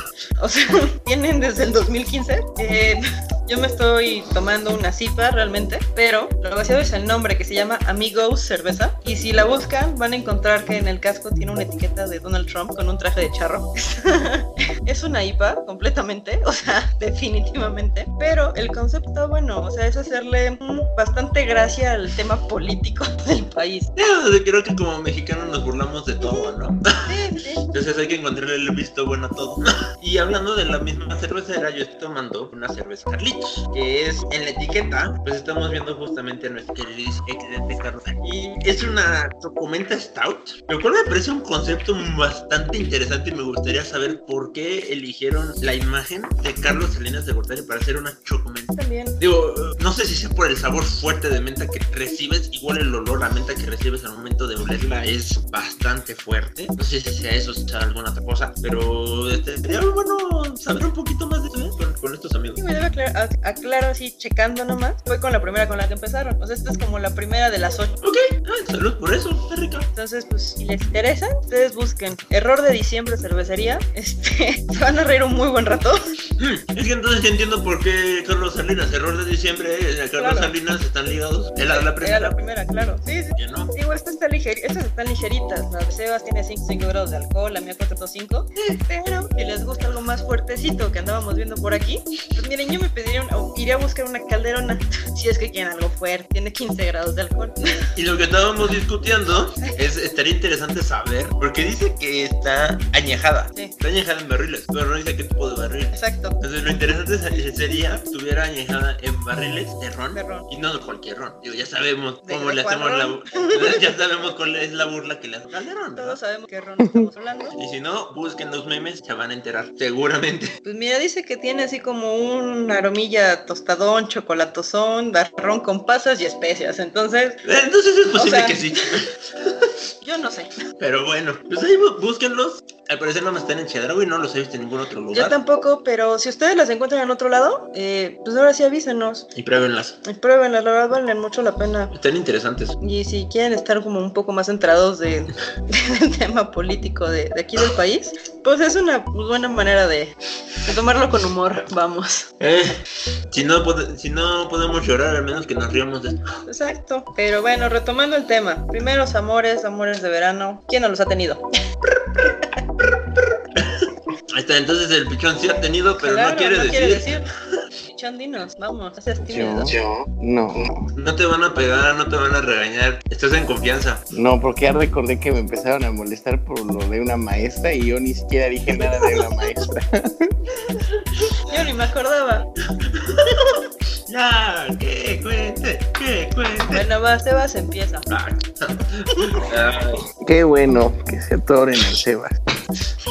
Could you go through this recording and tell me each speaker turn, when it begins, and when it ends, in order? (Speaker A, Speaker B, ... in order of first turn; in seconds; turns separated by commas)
Speaker A: 0.4-23.9, Speaker B: 24.0-27.1, Speaker A: 26.2-26.5, Speaker A: 27.1-27.7, Speaker B: 27.7-62.6, Speaker A: 38.2-38.7, Speaker A: 48.8-49.2, Speaker A: 62.6-68.0, Speaker B: 68.0-69.9, Speaker A: 69.9-76.1, Speaker B: 76.4-82.3, Speaker A: 80.2-80.5, Speaker A: 81.7-97.9, Speaker B: 83.4-83.7, Speaker B: 98.0-116.2, Speaker A: 105.9-106.3, Speaker A: 110.1-110.5, Speaker A: 112.2-113.9, Speaker A: 116.0-117.5, Speaker C: 116.8-117.1, Speaker B: 117.5-120.5, Speaker A: 120.6-127.4, Speaker B: 127.4-129.7, Speaker A: 128.2-128.8, Speaker A: 130.0-130.5, Speaker B: 130.8-135.3, Speaker A: 135.1-139.3, Speaker B: 139.3-140.0, Speaker A: 140.0-141.9, Speaker B: 141.9-142.7, Speaker A: 142.8-152.3, Speaker B: 152.4-156.4, Speaker A: 156.5-161.4, Speaker B: 163.6-167.1, Speaker A: 166.0-167.3, Speaker A: 167.8-169.7, Speaker C: 169.3-170.9, Speaker B: 170.9-174.0, Speaker C: 174.1-180.3, Speaker B: 180.6-181.4, Speaker A: 181.5-182.5, Speaker B: 182.8-186.8, Speaker A: 186.7-188.1, Speaker B: 188.1-190.0, Speaker C: 190.2-192.4